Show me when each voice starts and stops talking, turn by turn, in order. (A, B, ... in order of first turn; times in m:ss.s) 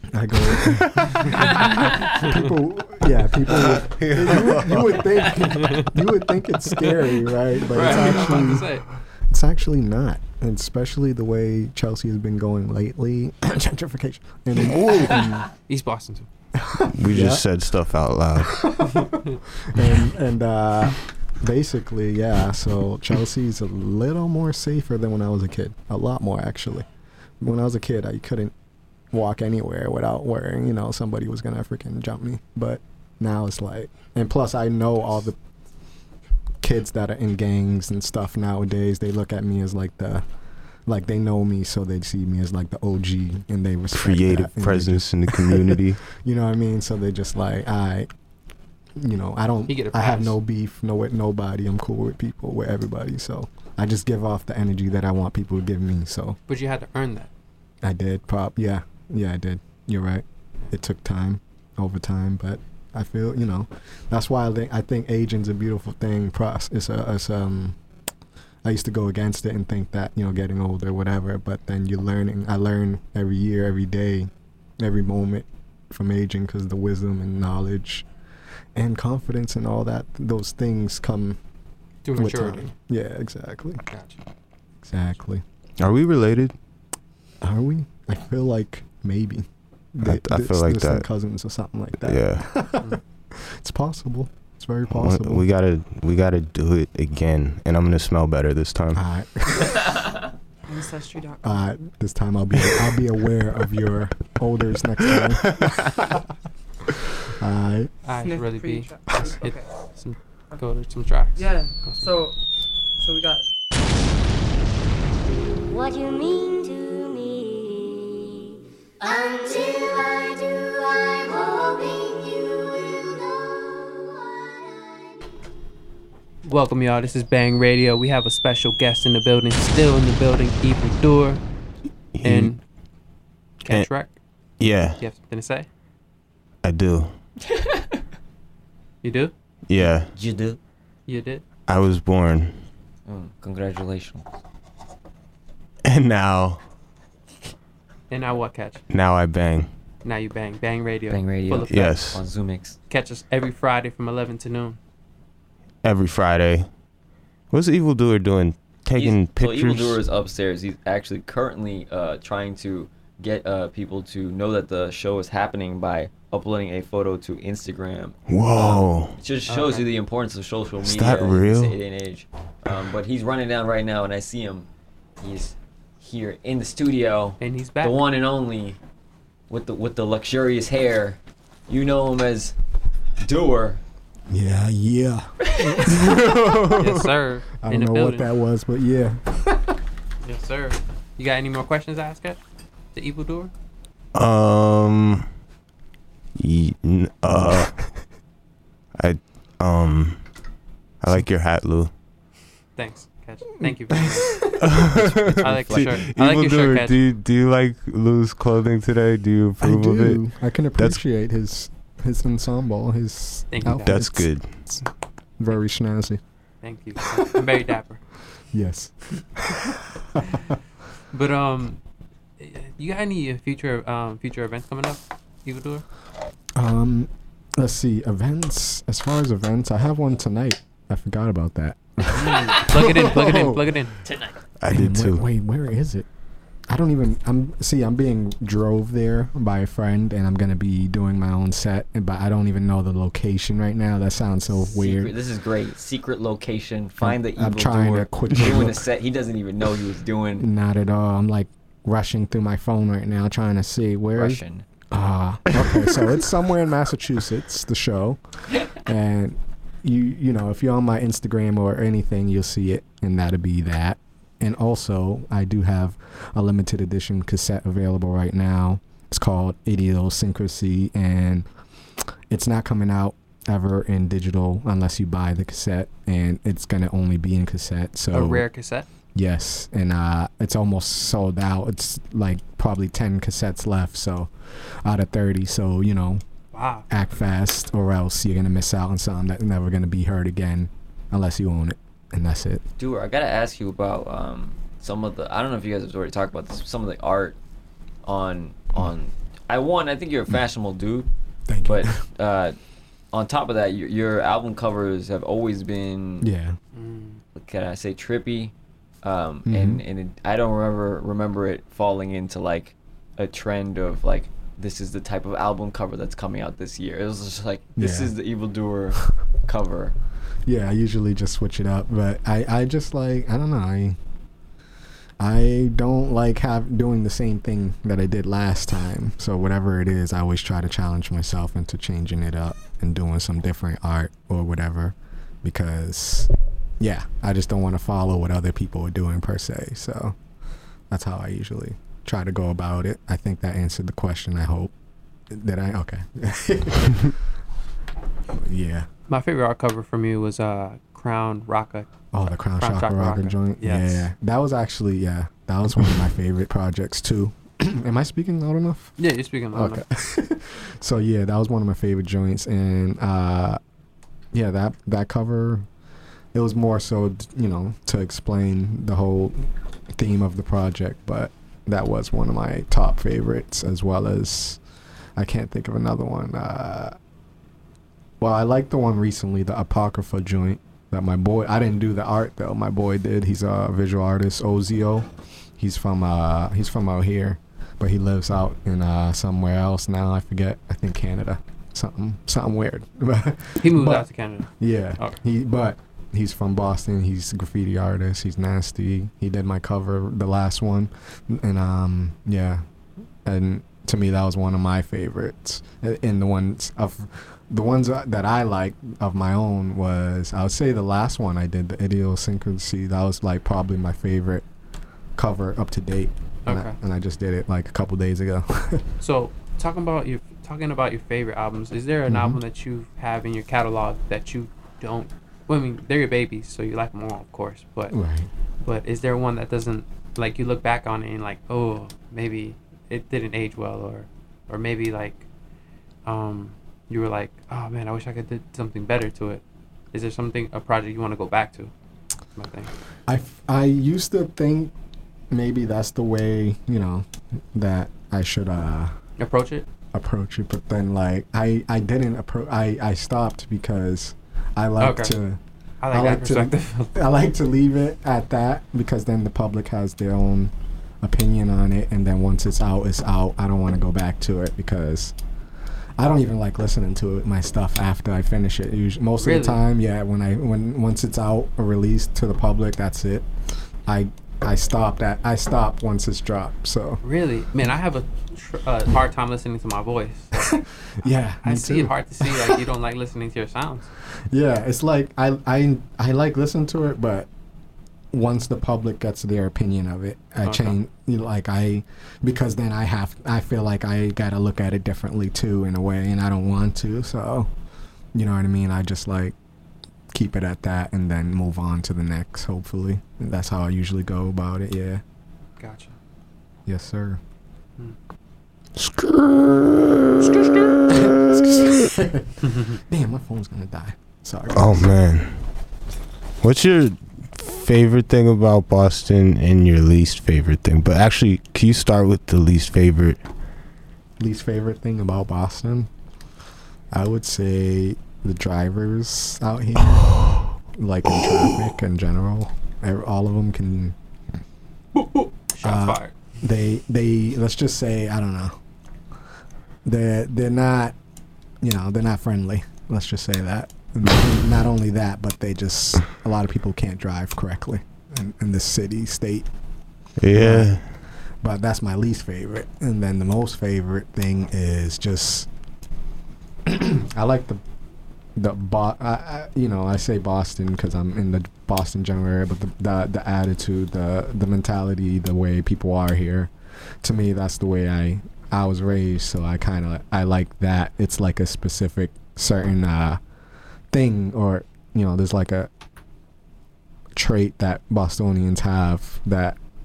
0:00.1-0:15.5 A
0:00.7-0:01.9 B
0:01.3-0:01.7 C
0:03.4-0:05.8 B
0:07.7-0:08.8 C
0:14.8-0:15.2 B
0:15.5-0:16.3 C
0:16.6-0:17.4 A
0:16.9-0:18.8 B
0:18.6-0:19.1 A
0:19.6-0:26.8 A
0:27.4-0:28.5 A
0:29.1-0:35.4 A
0:36.6-0:40.2 A
0:40.8-0:48.1 A
0:43.9-0:46.0 B
0:49.0-0:56.4 A
0:49.7-0:50.4 C
0:56.5-0:57.3 C
0:57.8-1:07.8 A
1:08.6-1:18.0 A
1:18.7-1:21.4 A
1:22.0-1:22.7 C
1:22.1-1:23.8 A
1:23.9-1:24.2 C
1:24.8-1:25.4 A
1:25.8-1:26.5 B
1:27.4-1:35.4 A
1:30.0-1:31.0 B
1:32.0-1:32.4 B
1:34.9-1:39.0 B
1:38.9-1:39.9 A
1:40.7-1:41.6 D
1:41.4-1:45.9 A
1:47.3-1:47.9 A
1:48.0-1:52.1 C
1:48.2-1:49.7 D
1:51.4-1:52.4 D
1:53.0-1:53.4 D
1:55.6-1:58.2 E
1:59.0-2:04.8 E
2:06.4-2:11.4 C
2:12.1-2:12.5 B
2:12.2-2:12.6 C
2:13.6-2:14.2 C
2:14.6-2:15.0 B
2:15.0-2:15.7 C
2:16.6-2:17.1 B
2:19.0-2:19.3 C
2:19.7-2:20.1 B
2:19.8-2:20.6 F
2:21.1-2:21.4 C
2:21.7-2:22.5 B
2:23.0-2:24.2 F
2:25.8-2:26.6 B
2:28.1-2:28.8 C
2:28.9-2:29.7 B
2:30.0-2:32.0 C
2:31.1-2:32.8 F
2:31.7-2:32.2 B
2:32.9-2:34.8 C
2:35.8-2:36.7 B
2:37.5-2:40.0 B
2:38.9-2:54.7 F
2:48.3-2:49.2 B
2:49.5-2:49.8 C
2:50.8-2:51.8 B
2:55.2-2:58.8 F
2:57.4-2:58.0 C
2:59.5-3:02.5 F
3:03.2-3:03.8 F
3:04.3-3:06.6 A
3:05.8-3:07.1 B
3:06.7-3:08.3 C
3:07.6-3:09.7 A
3:10.2-3:12.4 C
3:12.9-3:13.5 C
3:14.1-3:15.3 B
3:16.4-3:17.9 B
3:19.0-3:20.2 B
3:21.0-3:21.9 B
3:22.8-3:24.4 C
3:24.4-3:30.2 B
3:25.3-3:26.0 F
3:25.4-3:27.0 C
3:29.6-3:34.8 A
3:33.5-3:34.0 C
3:33.8-3:34.5 B
3:35.4-3:36.2 A
3:36.6-3:38.0 C
3:38.5-3:40.5 A
3:41.1-3:41.8 C
3:42.4-3:45.8 C
3:46.5-3:53.6 A
3:52.1-3:54.0 C
3:54.0-3:54.3 F
3:54.6-3:55.2 B
3:54.7-3:56.1 A
3:56.7-4:05.1 A
4:04.6-4:10.4 F
4:07.0-4:08.9 A
4:10.4-4:31.5 A
4:14.1-4:14.6 F
4:32.3-4:38.5 A
4:38.1-4:38.9 C
4:39.1-4:46.2 A
4:46.5-4:46.9 C
4:46.9-4:52.6 A
4:52.8-4:57.4 F
4:58.0-5:01.1 F
5:01.5-5:02.0 A
5:01.6-5:02.6 F
5:03.1-5:06.3 F
5:06.2-5:06.6 A
5:06.7-5:07.2 C
5:07.3-5:19.9 F
5:09.4-5:09.8 A
5:17.8-5:18.1 A
5:20.4-5:24.0 A
5:25.2-5:40.2 A
5:40.9-5:44.7 A
5:45.3-5:47.1 A
5:48.3-5:48.9 A
5:49.1-5:54.1 C
5:52.1-5:59.0 A
5:59.0-5:59.8 C
5:59.5-6:03.6 A
6:04.3-6:05.7 A
6:06.3-6:14.6 A
6:15.2-6:17.0 A
6:18.2-6:42.6 A
6:33.6-6:35.2 C
6:43.2-6:54.4 A
6:55.2-6:58.8 A
6:56.4-6:56.8 C
6:59.0-7:08.0 C
7:02.1-7:02.4 A
7:07.9-7:08.3 A
7:08.6-7:15.2 C
7:16.0-7:21.7 C
7:22.4-7:22.7 C
7:23.1-7:24.7 A
7:25.3-7:28.9 A
7:29.2-7:29.6 C
7:29.9-7:45.1 A
7:34.8-7:35.2 C
7:35.8-7:36.9 C
7:46.0-7:53.3 A
7:49.2-7:49.6 C
7:53.8-7:57.0 A
7:57.0-8:00.6 C
8:00.3-8:02.5 A
8:01.4-8:03.9 C
8:04.3-8:07.3 A
8:08.1-8:17.5 A
8:10.4-8:10.8 C
8:18.1-8:19.3 A
8:20.1-8:25.0 A
8:25.6-8:26.0 C
8:26.6-8:27.2 A
8:28.8-8:31.1 B
8:30.9-8:34.9 A
8:32.4-8:32.8 C
8:34.5-8:35.3 B
8:36.4-8:43.2 B
8:44.2-8:45.9 A
8:46.9-8:50.1 A
8:50.7-8:54.0 A
8:54.9-8:56.2 C
8:55.6-8:58.6 A
8:59.8-9:01.0 A
9:01.6-9:09.5 A
9:10.2-9:10.8 B
9:10.3-9:10.8 A
9:11.4-9:15.5 A
9:16.6-9:17.6 A
9:18.4-9:26.5 A
9:27.0-9:33.2 A
9:33.9-9:35.7 A
9:37.1-9:39.6 A